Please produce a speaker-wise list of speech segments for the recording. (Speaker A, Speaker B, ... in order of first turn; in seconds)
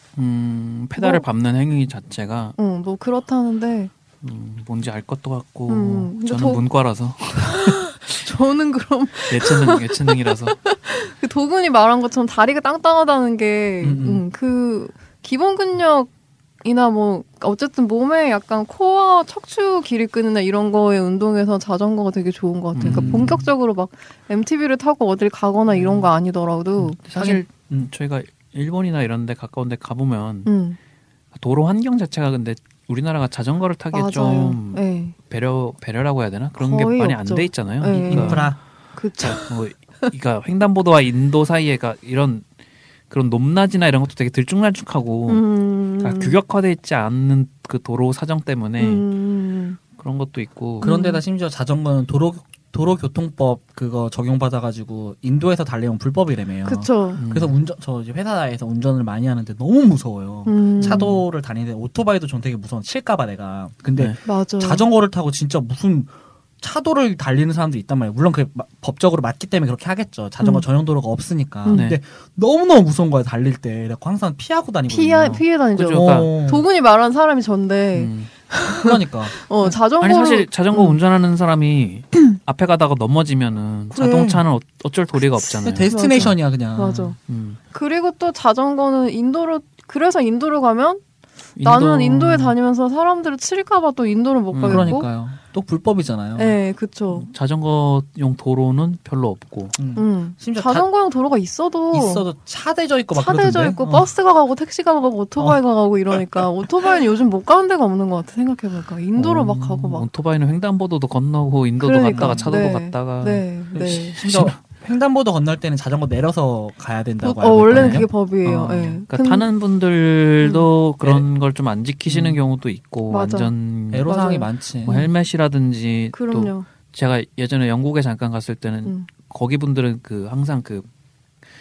Speaker A: 0.1-2.5, 4.2-7.8, 9.3-10.6, 22.7-23.4, 27.0-30.5, 31.3-38.5, 39.2-42.5, 43.1-45.4, 46.0-49.0, 50.0-50.9, 57.2-57.5, 60.8-61.2, 71.7-72.0, 75.7-76.3, 77.9-78.3, 79.8-86.3, 87.2-87.6, 91.5-92.5, 94.5-95.0, 97.1-99.8, 109.2-114.6, 117.7-118.1, 119.1-124.1, 124.8-130.9
Speaker B: 1.0-1.2, 2.6-3.9, 5.7-6.6, 7.4-16.1, 16.6-27.0, 30.4-30.8, 33.9-35.1, 36.6-39.5, 45.3-46.4, 48.8-49.8, 50.8-51.2, 56.6-57.2, 60.5-61.1, 64.2-64.8, 70.4-70.6, 71.6-71.9, 74.9-80.5, 85.9-87.2, 87.7-91.0, 91.6-95.1, 96.3-97.3, 99.9-102.3, 103.1-110.0, 111.8-114.2, 117.2-119.5, 120.4-120.7, 123.1-123.5, 124.0-125.1, 126.1-126.7
Speaker C: 13.8-14.2, 22.8-23.5, 26.8-27.8, 37.9-38.6, 50.8-76.7, 78.7-79.5, 83.9-84.4, 85.5-87.1, 94.6-96.6, 99.8-100.9, 101.9-104.1, 105.4-106.4, 112.0-112.6, 113.7-119.0, 122.0-122.4, 123.9-124.9